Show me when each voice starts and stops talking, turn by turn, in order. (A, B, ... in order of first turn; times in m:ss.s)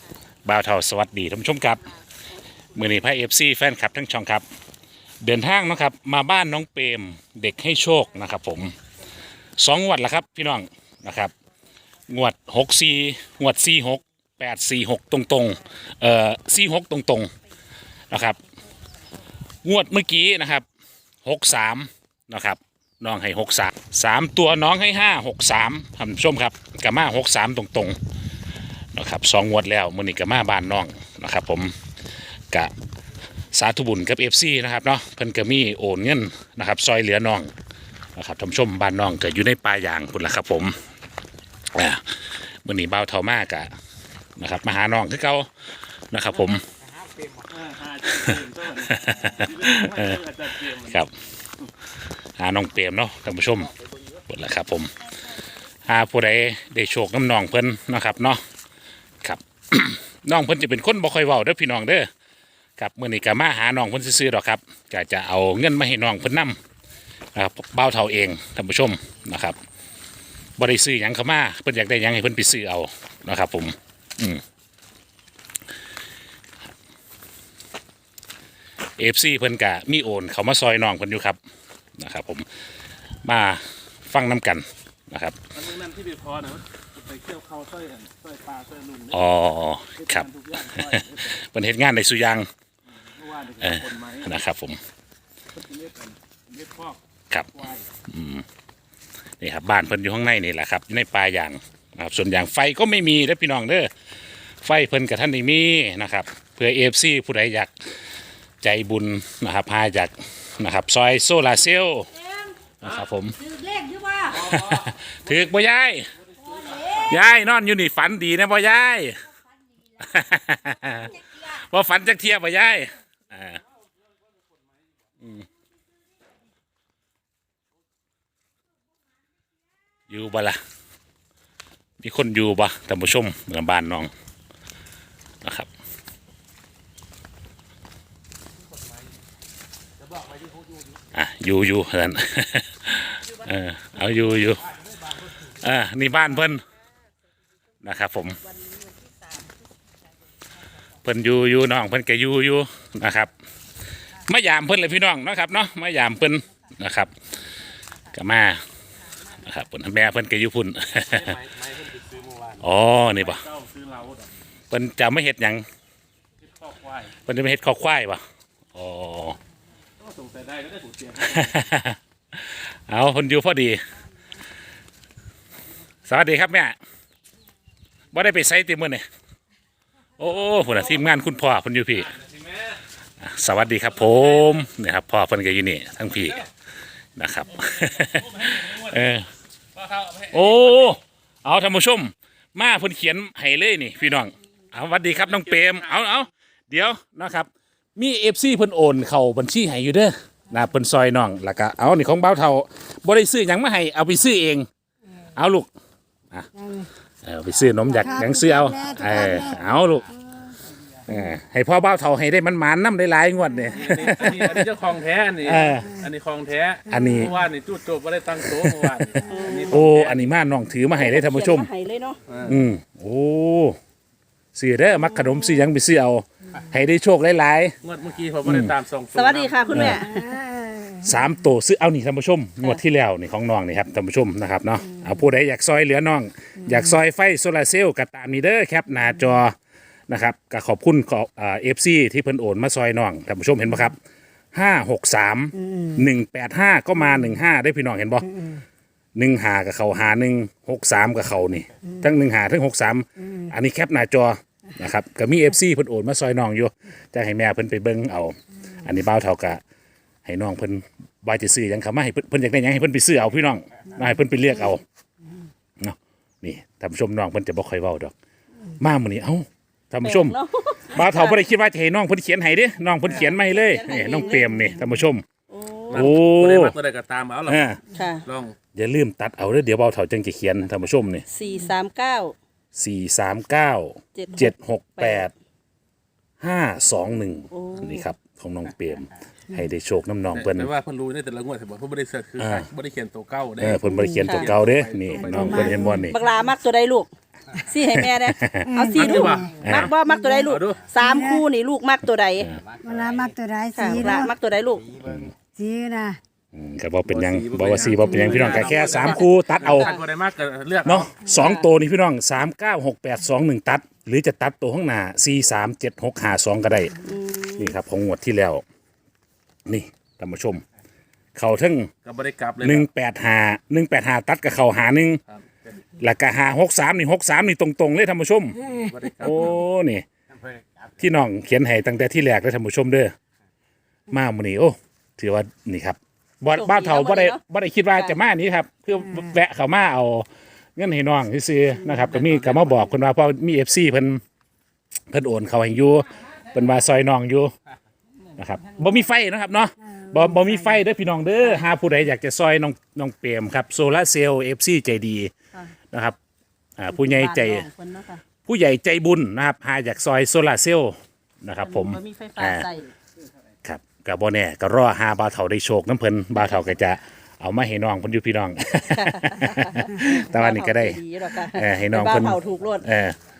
0:00.4-0:01.8 A
0:02.7-0:04.4 A
0:05.2-0:08.8 A
0:09.6-0:11.3 A
0:12.1-0:17.3 A
0:18.1-0:18.4 A
0:19.6-0:20.6 A
0:21.2-0:28.0 A
0:28.9-0:31.8 A
0:33.5-0:37.5 A
0:38.2-0:40.8 A
0:41.7-0:43.7 A
0:44.4-0:45.5 A
0:46.1-0:46.6 A
0:47.4-0:51.0 B
0:48.9-0:50.2 A
0:50.7-0:51.1 A
0:52.4-0:53.7 A
0:54.3-0:54.9 A
0:55.8-0:58.4 A
0:59.2-1:02.1 A
1:02.8-1:06.6 A
1:07.3-1:09.6 A
1:10.6-1:14.4 A
1:19.0-1:21.4 A
1:22.0-1:22.5 A
1:23.2-1:25.4 A
1:25.5-1:29.2 B
1:29.1-1:32.5 A
1:30.0-1:31.3 B
1:33.0-1:34.3 B
1:33.6-1:34.8 A
1:35.5-1:37.0 B
1:38.1-1:38.4 A
1:39.4-1:43.9 A
1:44.6-1:48.0 A
1:48.6-1:52.1 A
1:52.8-1:53.4 A
1:53.4-1:54.5 C
1:54.3-1:56.1 A
1:54.5-1:55.0 B
1:56.5-1:56.8 B
1:56.6-1:57.1 C
1:56.9-1:59.2 A
2:00.0-2:03.6 A
2:10.1-2:10.6 A
2:12.0-2:14.1 A
2:15.4-2:15.7 A
2:21.1-2:24.7 A
2:25.4-2:26.6 A
2:27.8-2:28.4 A
2:28.4-2:29.5 C
2:31.0-2:33.3 A
2:34.2-2:37.1 A
2:38.1-2:38.6 A
2:39.3-2:41.4 A
2:41.1-2:42.5 B
2:42.6-2:43.4 A
2:43.1-2:44.3 B
2:44.7-2:45.6 A
2:46.4-2:47.1 B
2:47.2-2:48.2 A
2:48.7-2:49.4 A
2:50.0-2:51.5 B
2:51.2-2:53.8 A
2:56.0-2:56.8 A
2:58.1-2:59.0 A
3:00.2-3:02.1 A
3:02.2-3:02.6 B
3:03.2-3:06.5 A
3:07.2-3:09.3 A
3:08.1-3:08.7 B
3:09.8-3:10.9 B
3:10.3-3:24.7 A
3:15.2-3:15.8 B
3:25.3-3:25.7 A
3:26.5-3:26.9 D
3:27.2-3:30.1 A
3:27.9-3:29.6 D
3:31.1-3:34.6 A
3:33.7-3:40.2 B
3:35.4-3:35.9 A
3:36.9-3:37.3 A
3:36.9-3:37.2 D
3:38.4-3:38.9 A
3:39.2-3:39.8 C
3:39.7-3:41.7 A
3:40.9-3:42.2 C
3:42.3-3:42.6 B
3:42.4-3:43.8 A
3:44.5-3:47.7 A
3:45.0-3:45.6 C
3:47.8-3:49.9 B
3:48.4-3:48.7 A
3:49.1-3:50.4 C
3:49.7-3:50.0 A
3:50.1-3:51.0 D
3:51.0-3:59.5 A
4:00.1-4:04.0 A
4:04.5-4:08.4 A
4:05.6-4:06.0 D
4:09.2-4:19.6 A
4:20.2-4:24.8 A
4:25.8-4:28.1 A
4:28.8-4:30.4 A
4:30.0-4:31.4 C
4:30.9-4:35.2 A
4:33.1-4:34.6 C
4:35.5-4:36.1 C
4:35.9-4:37.6 B
4:35.9-4:36.7 A
4:37.5-4:37.8 A
4:37.9-4:38.2 C
4:38.2-4:38.6 B
4:38.7-4:41.2 A
4:41.3-4:42.4 C
4:42.7-4:45.3 A
4:44.1-4:45.3 C
4:46.4-4:50.7 A
4:47.5-4:48.0 C
4:50.3-4:55.9 B
4:52.4-4:52.7 A
4:53.6-4:56.2 A
4:53.9-4:54.2 D
4:54.3-4:54.5 C
4:55.1-4:56.4 D
4:56.1-5:02.5 C
4:57.9-4:59.9 A
4:58.6-5:01.4 D
4:58.9-4:59.9 B
5:00.5-5:00.9 B
5:02.8-5:04.3 D
5:03.8-5:04.9 C
5:05.0-5:05.3 A
5:05.4-5:06.2 D
5:06.5-5:09.9 A
5:07.1-5:11.1 B
5:08.1-5:10.0 C
5:10.8-5:17.0 A
5:11.3-5:11.7 C
5:17.0-5:17.7 C
5:17.6-5:18.6 A
5:19.7-5:20.6 A
5:21.4-5:21.9 A
5:22.0-5:22.8 B
5:22.6-5:25.2 A
5:26.0-5:28.6 A
5:28.8-5:29.6 B
5:29.2-5:30.0 A
5:31.0-5:33.1 A
5:34.1-5:44.2 A
5:36.5-5:37.4 C
5:42.0-5:42.9 B
5:45.1-5:47.5 A
5:48.4-5:55.3 A
5:50.1-5:50.5 D
5:55.9-5:56.2 A
5:56.8-5:57.7 A
5:56.9-5:58.2 C
5:58.4-6:02.7 A
6:01.6-6:02.9 C
6:03.6-6:11.0 A
6:08.8-6:12.9 C
6:11.5-6:13.2 A